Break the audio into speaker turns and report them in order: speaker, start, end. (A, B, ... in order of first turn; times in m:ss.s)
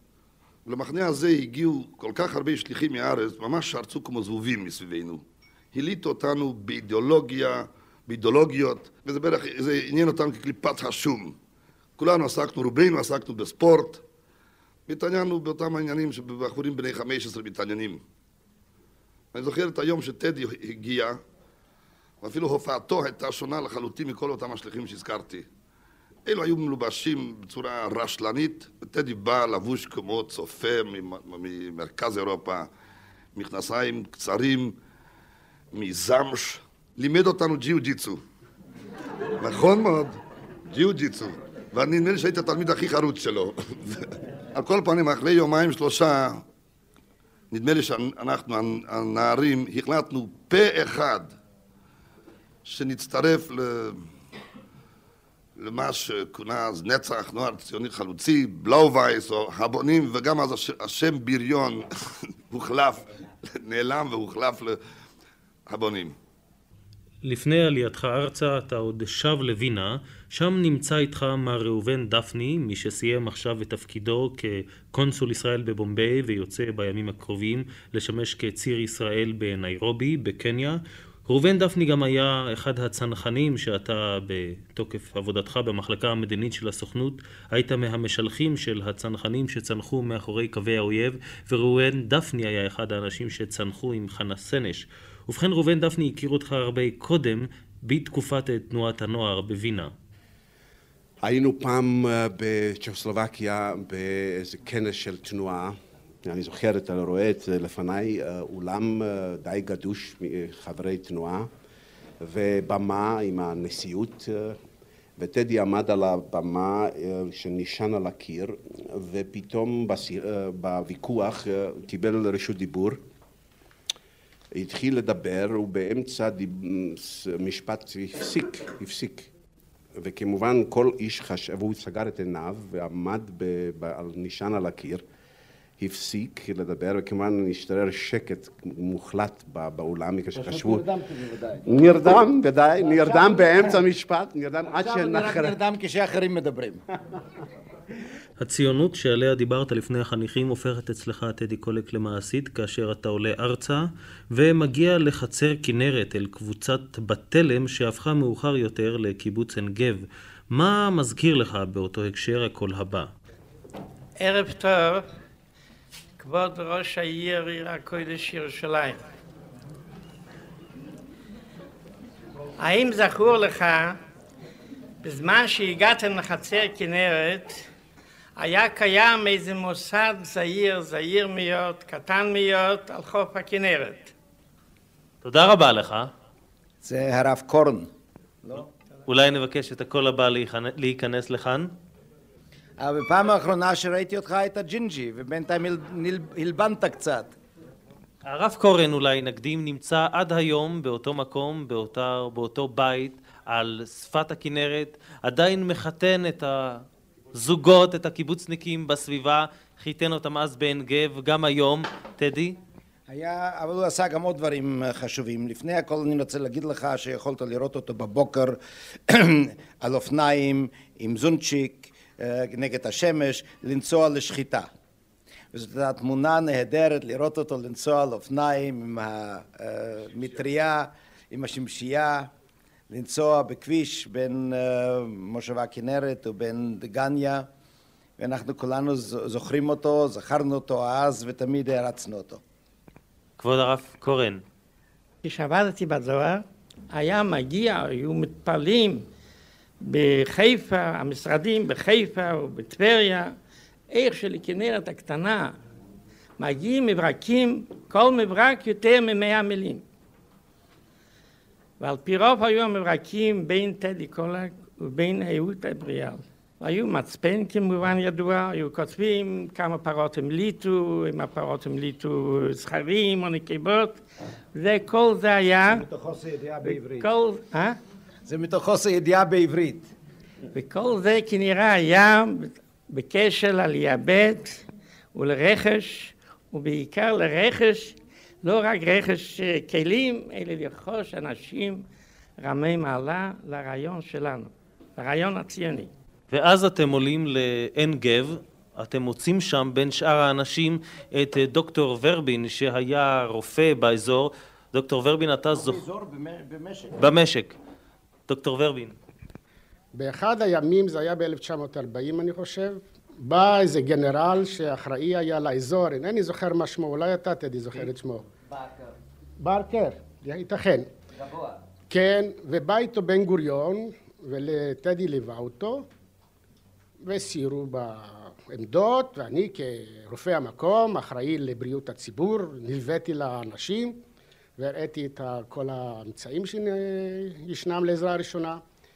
0:00.7-0:05.2 A
0:05.7-0:11.4 A
0:12.0-0:14.0 A
0:14.9-0:18.0 A
0:19.3-0:21.2 A
0:22.2-0:25.5 A
0:26.3-0:32.7 A
0:33.4-0:34.8 A
0:35.7-0:38.2 A
0:39.4-0:40.2 A
0:40.7-0:46.4 A
0:47.5-0:51.3 A
0:52.7-0:54.1 A
0:55.6-1:01.8 A
1:02.5-1:04.8 A
1:05.7-1:06.2 A
1:07.2-1:39.9 B
1:41.2-1:51.5 C
1:52.2-1:54.6 C
1:55.2-2:03.0 C
2:04.5-2:09.3 C
2:10.0-2:15.0 C
2:15.8-2:20.9 C
2:20.4-2:21.6 D
2:21.7-2:25.5 C
2:23.0-2:23.6 D
2:24.7-2:26.8 D
2:28.4-2:43.1 B
2:44.2-2:45.0 E
2:46.2-2:49.0 E
2:52.6-2:54.0 E
2:55.0-2:57.6 E
2:58.4-3:04.1 E
3:05.2-3:06.1 B
3:06.8-3:07.9 D
3:09.1-3:11.7 B
3:12.8-3:17.4 D
3:18.2-3:32.6 B
3:33.1-3:44.7 D
3:45.5-3:52.3 D
3:52.9-3:57.5 D
3:58.2-4:02.4 D
4:03.4-4:04.4 B
4:05.2-4:09.1 E
4:09.8-4:13.4 E
4:13.9-4:15.6 E
4:16.4-4:19.8 E
4:21.8-4:34.0 E
4:34.5-4:35.9 E
4:35.7-4:37.1 D
4:36.7-4:37.8 E
4:38.3-4:39.9 D
4:40.5-4:44.6 E
4:45.1-4:51.9 E
4:52.4-4:55.9 E
4:56.3-5:05.8 B
5:05.5-5:07.0 D
5:07.0-5:07.6 B
5:08.3-5:09.0 B
5:10.0-5:18.2 F
5:19.4-5:20.9 F
5:21.9-5:25.9 F
5:27.0-5:34.0 F
5:34.6-5:38.6 F